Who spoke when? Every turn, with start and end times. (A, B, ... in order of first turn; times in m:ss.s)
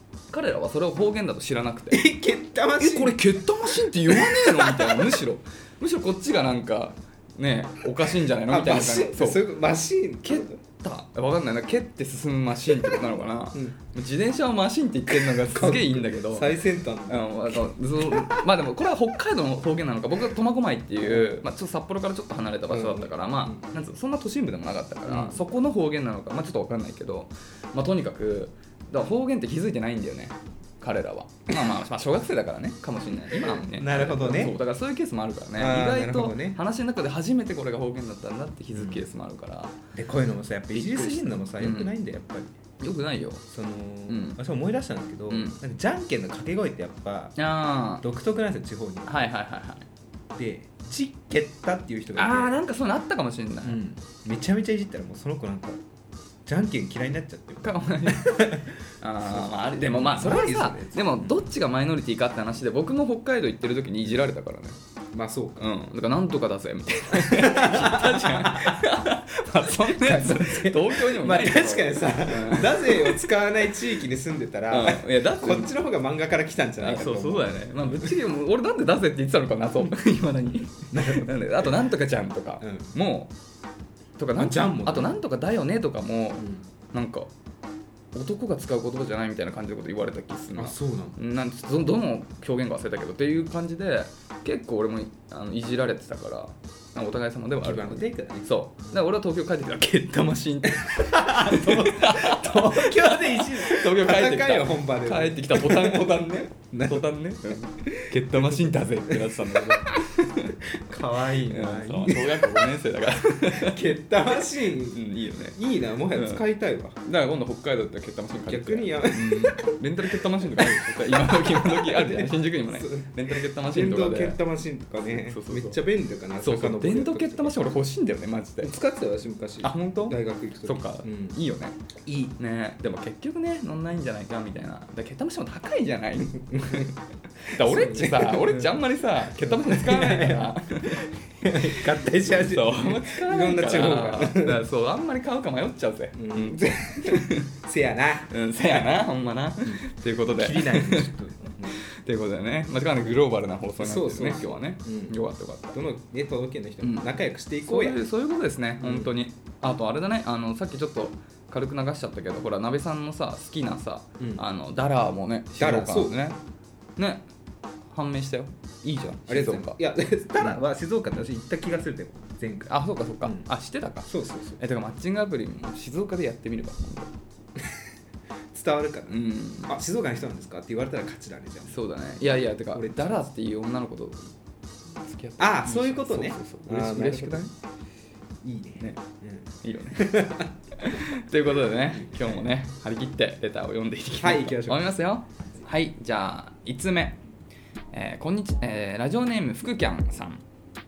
0:00.3-0:02.0 A
0:01.9-0:05.2 B
0:02.8-0:09.4 A
0:08.5-0:10.6 B
0:10.2-0:39.8 A
0:15.1-0:18.5 B
0:21.0-0:21.4 B
0:22.7-0:23.7 B
0:25.0-0:25.4 B
0:33.3-0:34.6 B
0:35.6-0:36.6 B
0:38.7-0:39.0 B
0:39.9-0:42.5 B
0:40.7-0:41.9 A
0:42.8-0:43.4 A
0:43.5-0:47.4 B
0:44.1-0:44.4 A
0:45.3-0:45.6 A
0:47.4-0:48.0 A
0:48.0-0:49.3 B
0:49.1-0:49.9 A
0:50.3-0:52.6 B
0:52.2-0:53.8 A
0:53.6-0:55.8 B
0:56.4-1:01.4 B
0:57.6-1:04.8 A
1:05.1-1:05.7 B
1:05.6-1:13.4 A
1:07.1-1:08.9 B
1:09.6-1:18.1 B
1:14.7-1:15.7 A
1:16.8-1:23.3 A
1:20.9-1:21.7 B
1:22.6-1:22.9 B
1:24.2-1:27.3 A
1:24.4-1:25.2 B
1:26.4-1:26.6 B
1:28.1-1:50.6 A
1:30.6-1:31.2 B
1:37.6-1:39.0 B
1:40.7-1:57.0 B
1:51.3-1:53.9 A
1:54.8-1:55.6 A
1:56.1-1:56.4 A
1:57.0-2:04.4 A
1:58.5-2:07.6 B
2:05.1-2:05.8 A
2:06.4-2:08.7 A
2:08.6-2:11.4 B
2:09.6-2:11.8 A
2:12.0-2:12.4 B
2:12.4-2:16.9 A
2:16.5-2:18.8 B
2:17.5-2:27.5 A
2:19.3-2:24.6 B
2:26.1-2:28.9 B
2:28.3-2:31.1 A
2:29.6-2:31.8 B
2:31.7-2:35.8 A
2:33.8-2:35.2 B
2:35.7-2:38.0 B
2:36.8-2:37.1 A
2:37.6-2:46.4 A
2:38.8-2:39.1 B
2:44.2-2:44.4 B
2:45.6-2:46.2 B
2:47.0-2:47.3 A
2:47.9-2:49.8 A
2:49.2-2:53.5 B
2:52.7-2:57.1 A
2:54.0-2:54.6 B
2:58.5-3:03.2 B
2:59.1-2:59.8 A
3:01.7-3:04.3 A
3:05.0-3:07.5 A
3:05.4-3:07.5 B
3:08.4-3:10.5 B
3:09.6-3:17.2 A
3:11.9-3:12.4 B
3:14.2-3:14.9 B
3:17.9-3:20.4 A